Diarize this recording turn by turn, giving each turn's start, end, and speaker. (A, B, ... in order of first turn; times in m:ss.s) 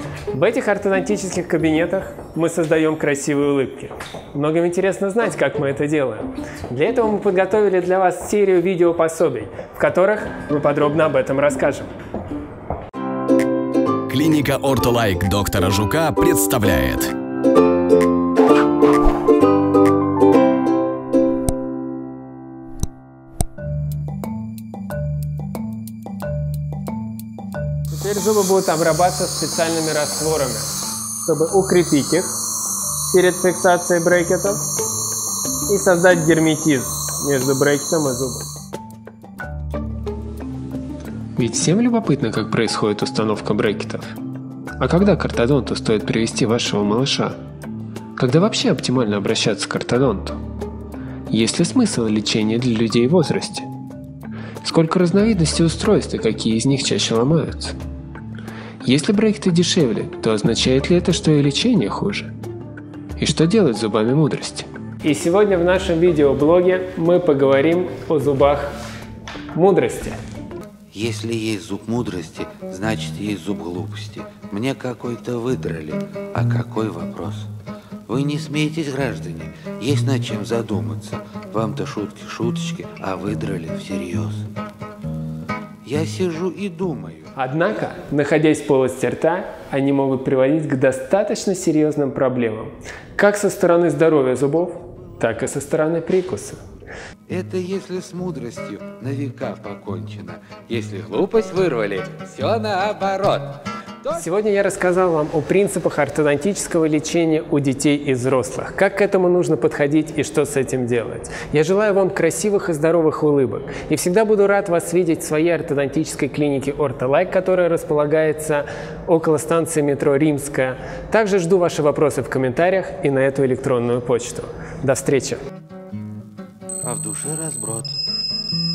0:00.3-0:11.9 A
0:14.1-0:17.1 B
0:27.9-0:32.3 A
0:33.1-0:34.6 A
0:35.7-0:38.5 A
0:41.4-0:44.1 A
0:44.8-0:47.4 A
0:48.2-0:50.4 A
0:51.3-0:53.7 A
0:54.6-0:57.8 A
0:58.8-1:02.3 A
1:03.2-1:08.7 A
1:09.5-1:10.2 A
1:10.9-1:17.5 C
1:18.1-1:24.5 C
1:25.8-1:27.3 C
1:27.3-1:36.6 A
1:37.3-1:44.1 C
1:44.1-2:05.4 A
2:06.8-2:08.0 C